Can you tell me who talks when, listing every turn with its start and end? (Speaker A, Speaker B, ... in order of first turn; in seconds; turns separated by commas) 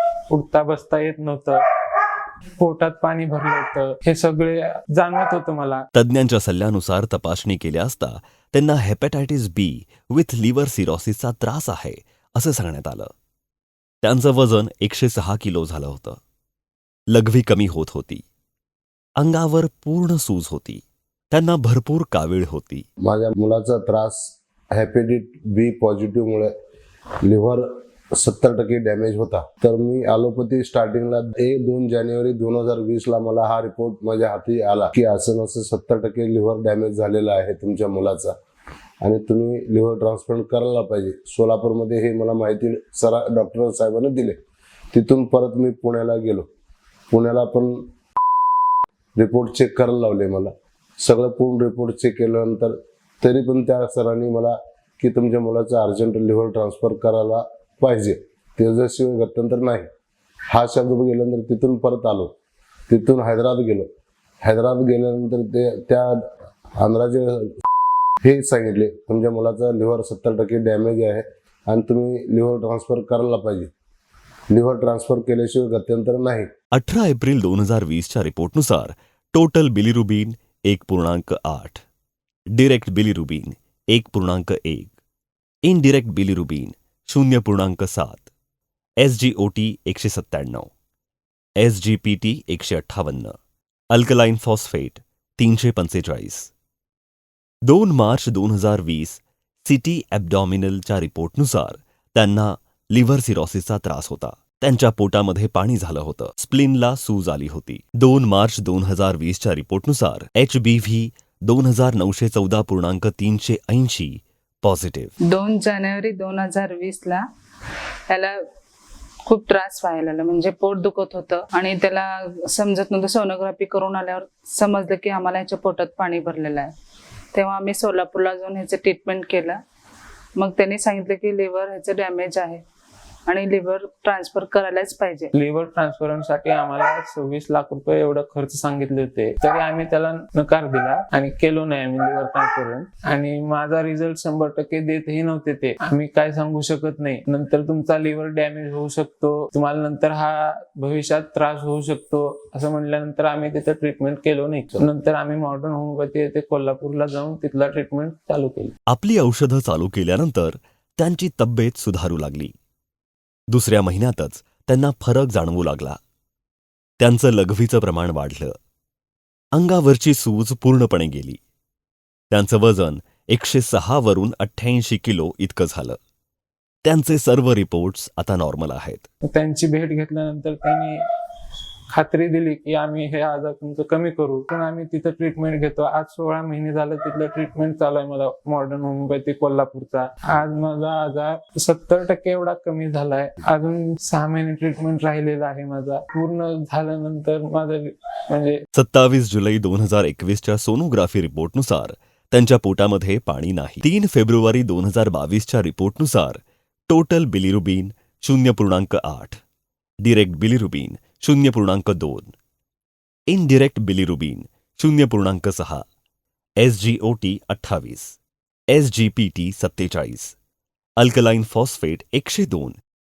Speaker A: 0.3-1.6, Speaker A: 2.6-5.8, Speaker B: 5.9-13.1, Speaker B: 14.0-16.2, Speaker B: 17.1-18.2, Speaker B: 19.2-22.9, Speaker C: 23.0-26.5, Speaker C: 27.2-38.4, Speaker C: 39.0-44.4, Speaker C: 44.9-46.5, Speaker C: 47.1-47.8, Speaker C: 49.1-59.9, Speaker C: 60.5-62.3, Speaker C: 62.9-63.9, Speaker C: 64.4-66.2, Speaker C: 66.8-67.5, Speaker C: 68.2-73.7, Speaker C: 74.5-76.5, Speaker B: 76.7-81.8, Speaker B: 82.5-84.9, Speaker B: 85.6-88.3, Speaker B: 89.0-90.7, Speaker B: 91.6-93.3, Speaker B: 93.9-96.5, Speaker B: 97.6-115.1, Speaker D: 115.3-117.2, Speaker D: 118.1-118.4, Speaker D: 119.2-126.7, Speaker D: 127.3-129.6, Speaker D: 130.3-132.6, Speaker D: 133.3-135.3, Speaker A: 135.3-158.7, Speaker B: 158.9-162.5, Speaker B: 163.5-166.0, Speaker B: 167.0-168.6, Speaker B: 169.5-171.4, Speaker B: 172.3-176.0, Speaker B: 176.8-179.1, Speaker A: 179.2-181.0, Speaker A: 181.9-198.6, Speaker B: 198.7-209.4, Speaker B: 210.0-212.3, Speaker B: 213.3-215.8, Speaker B: 216.6-218.2, Speaker B: 218.7-220.3, Speaker B: 221.0-222.8